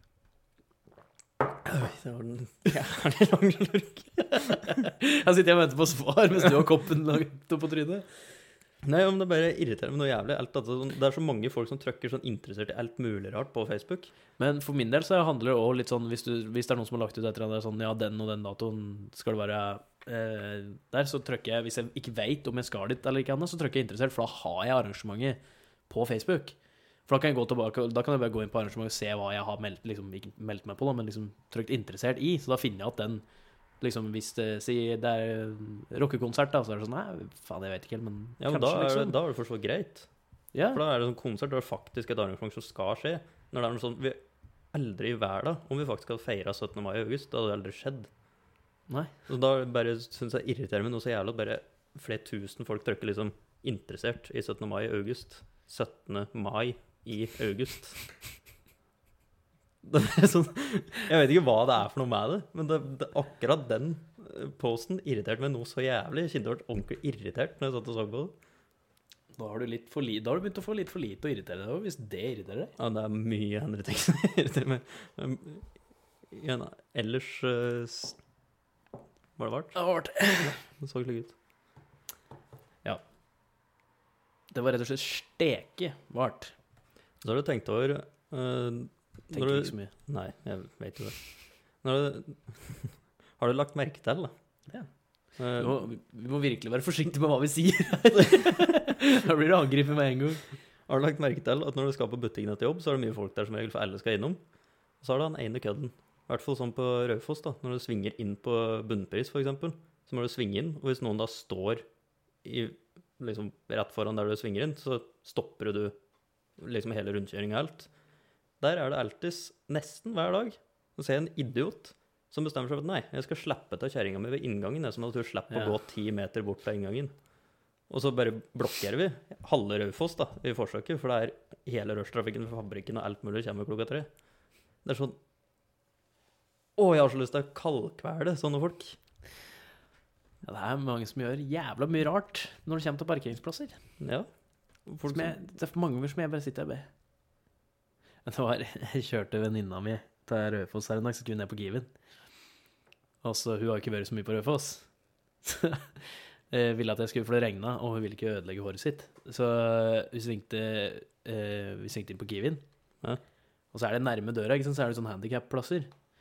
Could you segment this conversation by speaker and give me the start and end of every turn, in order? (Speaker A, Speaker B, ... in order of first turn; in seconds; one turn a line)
Speaker A: 1.6-4.9
Speaker B: 4.4-8.1
Speaker A: 8.8-14.1
Speaker B: 14.4-26.6
Speaker B: 27.1-33.2
Speaker B: 33.8-39.1
Speaker A: 38.4-40.1
Speaker B: 40.5-40.8
Speaker A: 40.7-44.2
Speaker A: 44.7-48.1
Speaker A: 49.3-58.1
Speaker A: 59.8-68.3
Speaker B: 69.3-72.7
Speaker A: 72.8-75.7
Speaker A: 76.3-78.2
Speaker A: 79.4-79.8
Speaker B: 79.7-80.6
Speaker A: 80.4-81.3
Speaker B: 84.5-86.5
Speaker A: 87.2-91.2
Speaker B: 89.3-89.9
Speaker A: 91.8-94.3
Speaker A: 95.4-95.8
Speaker B: 95.6-100.4
Speaker A: 100.9-104.4
Speaker A: 105.0-111.8
Speaker A: 112.4-115.9
Speaker A: 116.6-117.9
Speaker A: 118.6-127.1
Speaker A: 127.9-134.1
Speaker A: 134.8-135.2
Speaker A: 136.8-139.0
Speaker B: 140.4-143.8
Speaker A: 144.0-144.3
Speaker A: 144.8-145.4
Speaker B: 145.1-146.9
Speaker B: 148.2-151.9
Speaker B: 153.2-154.9
Speaker B: 155.4-162.6
Speaker B: 163.7-165.9